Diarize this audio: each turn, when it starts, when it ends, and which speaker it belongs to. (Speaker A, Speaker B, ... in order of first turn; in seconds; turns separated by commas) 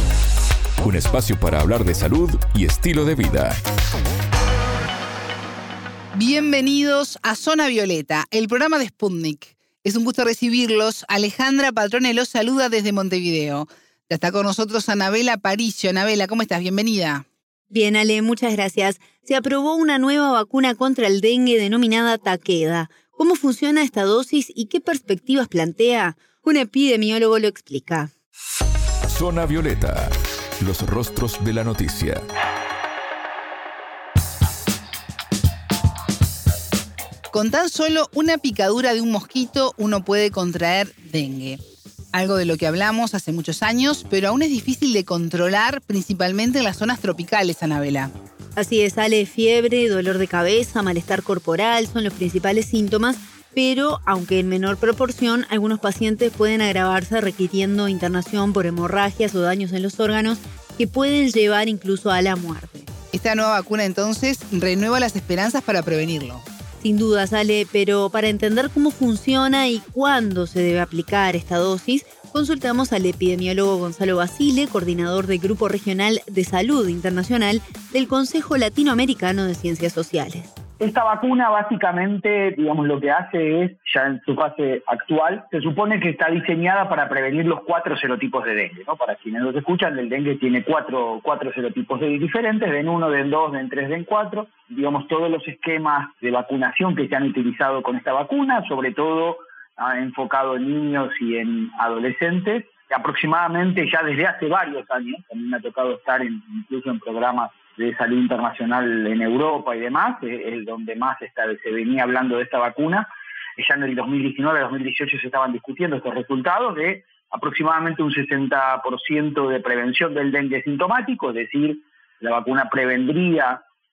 Speaker A: 0.8-3.6, Speaker B: 6.1-17.2, Speaker C: 17.7-28.1, Speaker A: 29.1-32.2, Speaker B: 37.3-41.6, Speaker B: 42.1-48.1, Speaker C: 48.6-62.9, Speaker B: 63.1-66.4, Speaker C: 66.8-80.5, Speaker D: 80.8-123.6